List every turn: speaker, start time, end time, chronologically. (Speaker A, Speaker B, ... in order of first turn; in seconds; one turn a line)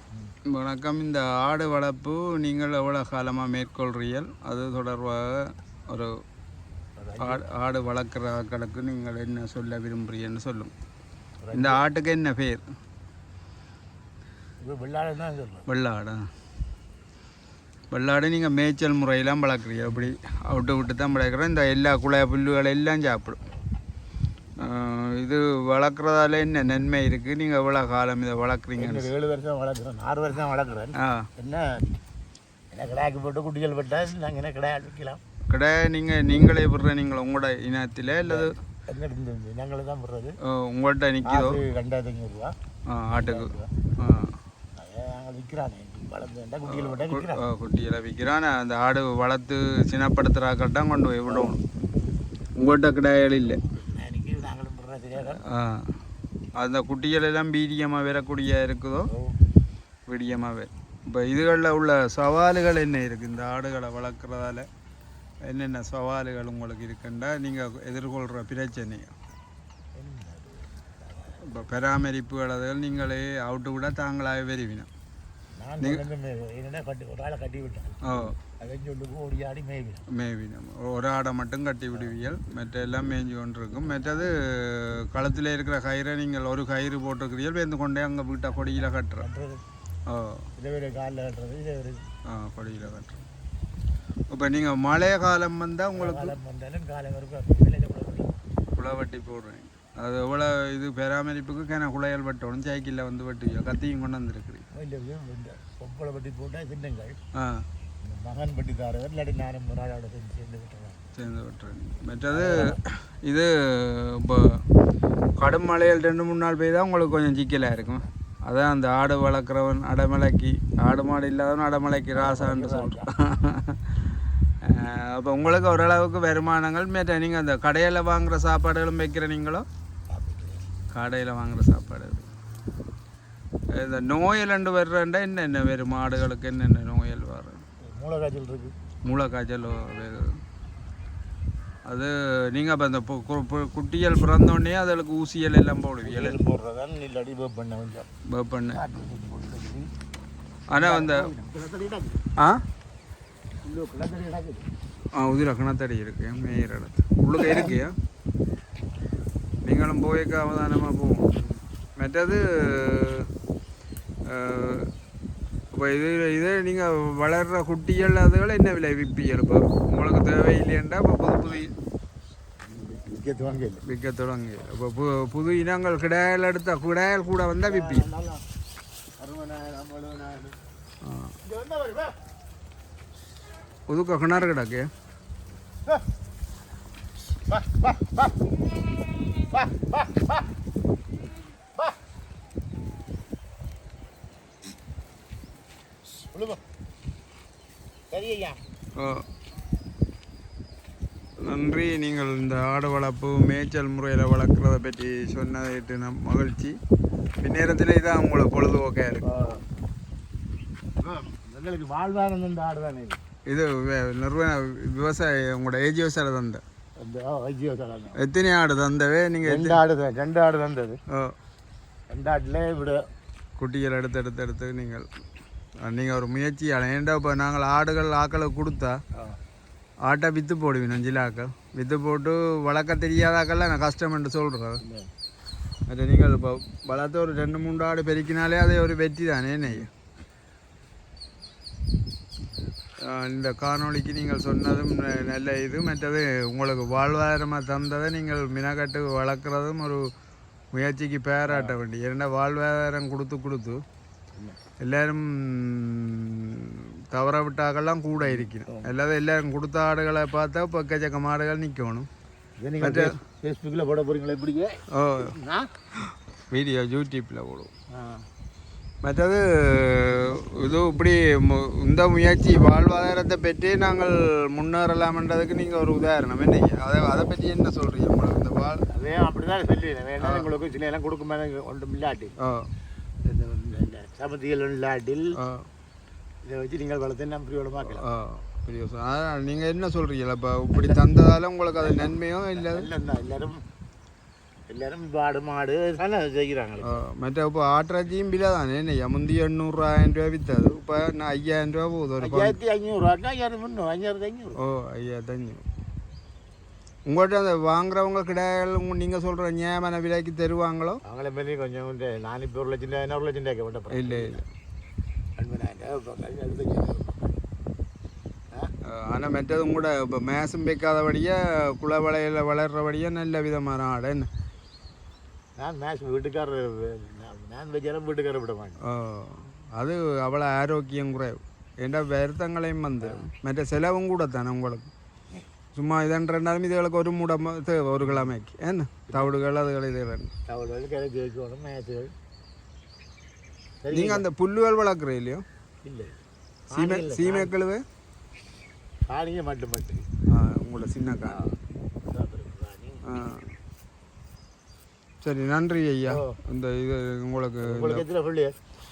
Speaker A: 0.5-6.1
Speaker B: 7.0-7.4
Speaker A: 7.2-10.7
Speaker B: 11.4-11.8
Speaker A: 11.5-12.6
Speaker B: 14.6-15.7
Speaker A: 15.7-16.3
Speaker A: 17.9-23.4
Speaker A: 24.6-29.1
Speaker B: 28.8-31.9
Speaker A: 31.0-31.3
Speaker B: 32.7-35.2
Speaker A: 35.5-38.5
Speaker B: 38.2-40.4
Speaker A: 40.5-41.6
Speaker B: 41.2-42.5
Speaker A: 42.9-44.4
Speaker B: 43.2-43.9
Speaker B: 44.7-47.5
Speaker A: 46.7-51.6
Speaker B: 51.3-51.6
Speaker A: 52.6-53.6
Speaker B: 53.3-55.4
Speaker A: 55.4-55.9
Speaker A: 56.5-59.1
Speaker B: 59.1-59.4
Speaker A: 60.1-64.7
Speaker A: 65.4-69.1
Speaker B: 70.0-71.5
Speaker A: 71.4-74.9
Speaker B: 75.6-80.0
Speaker A: 78.0-78.3
Speaker A: 80.1-89.3
Speaker B: 89.2-89.6
Speaker A: 90.1-90.5
Speaker B: 90.6-92.1
Speaker A: 92.2-93.2
Speaker A: 94.3-96.3
Speaker B: 95.9-98.3
Speaker A: 98.8-104.6
Speaker B: 104.7-107.2
Speaker A: 107.3-107.6
Speaker B: 108.0-111.1
Speaker A: 111.2-114.6
Speaker B: 112.3-112.8
Speaker A: 115.4-123.9
Speaker B: 122.1-123.1
Speaker A: 124.6-129.7
Speaker B: 130.1-130.7
Speaker A: 130.9-132.3
Speaker A: 133.7-137.6
Speaker B: 137.8-138.7
Speaker A: 139.0-140.4
Speaker A: 141.8-146.4
Speaker B: 146.0-148.1
Speaker A: 148.3-148.8
Speaker B: 148.7-149.9
Speaker A: 150.7-151.3
Speaker B: 150.8-152.2
Speaker A: 152.4-152.6
Speaker B: 153.6-154.7
Speaker A: 155.1-158.0
Speaker B: 157.4-157.7
Speaker A: 159.6-161.3
Speaker A: 162.0-163.3
Speaker A: 164.2-164.9
Speaker A: 165.7-171.7
Speaker B: 172.7-173.8
Speaker A: 173.8-178.1
Speaker B: 177.6-178.4
Speaker B: 179.2-180.6
Speaker A: 181.0-181.3
Speaker B: 181.4-182.2
Speaker A: 183.9-184.9
Speaker B: 187.5-188.4
Speaker B: 189.4-190.4
Speaker B: 196.3-196.6
Speaker B: 198.1-198.6
Speaker A: 199.0-199.2
Speaker A: 201.4-206.8
Speaker A: 207.4-209.2
Speaker B: 209.2-209.6
Speaker B: 211.0-213.2
Speaker A: 213.5-216.6
Speaker B: 217.0-218.2
Speaker A: 218.2-219.8
Speaker B: 219.4-221.0
Speaker B: 222.1-223.0
Speaker A: 223.6-225.1
Speaker A: 225.8-229.0
Speaker A: 230.0-234.8
Speaker B: 234.8-235.1
Speaker A: 235.9-239.9
Speaker A: 243.0-250.0
Speaker A: 250.7-253.8
Speaker B: 251.5-251.8
Speaker A: 254.8-262.1
Speaker B: 258.2-258.9
Speaker B: 262.6-265.7
Speaker A: 262.8-263.1
Speaker A: 264.9-265.3
Speaker A: 266.0-267.7
Speaker B: 267.9-268.2
Speaker A: 269.0-278.9
Speaker B: 278.9-282.3
Speaker A: 280.2-280.5
Speaker A: 282.4-282.7
Speaker B: 283.2-285.4
Speaker A: 285.4-285.7
Speaker B: 286.4-288.1
Speaker A: 287.8-292.9
Speaker B: 290.7-291.0
Speaker B: 291.8-293.6
Speaker B: 294.7-297.0
Speaker A: 296.8-302.6
Speaker B: 302.2-304.6
Speaker A: 304.6-305.6
Speaker A: 307.1-311.0
Speaker B: 311.1-314.4
Speaker A: 313.9-314.4
Speaker B: 315.4-317.2
Speaker A: 318.9-324.3
Speaker B: 325.6-328.8
Speaker A: 328.9-334.9
Speaker B: 333.0-333.2
Speaker A: 335.8-340.3
Speaker B: 338.0-338.3
Speaker B: 340.5-342.1
Speaker B: 343.8-344.3
Speaker A: 343.9-345.4
Speaker B: 345.9-346.2
Speaker B: 346.7-347.5
Speaker A: 346.7-347.8
Speaker B: 349.1-350.1
Speaker A: 350.3-351.4
Speaker B: 351.3-353.2
Speaker A: 353.1-353.5
Speaker A: 355.2-358.1
Speaker B: 356.1-356.4
Speaker B: 357.6-358.6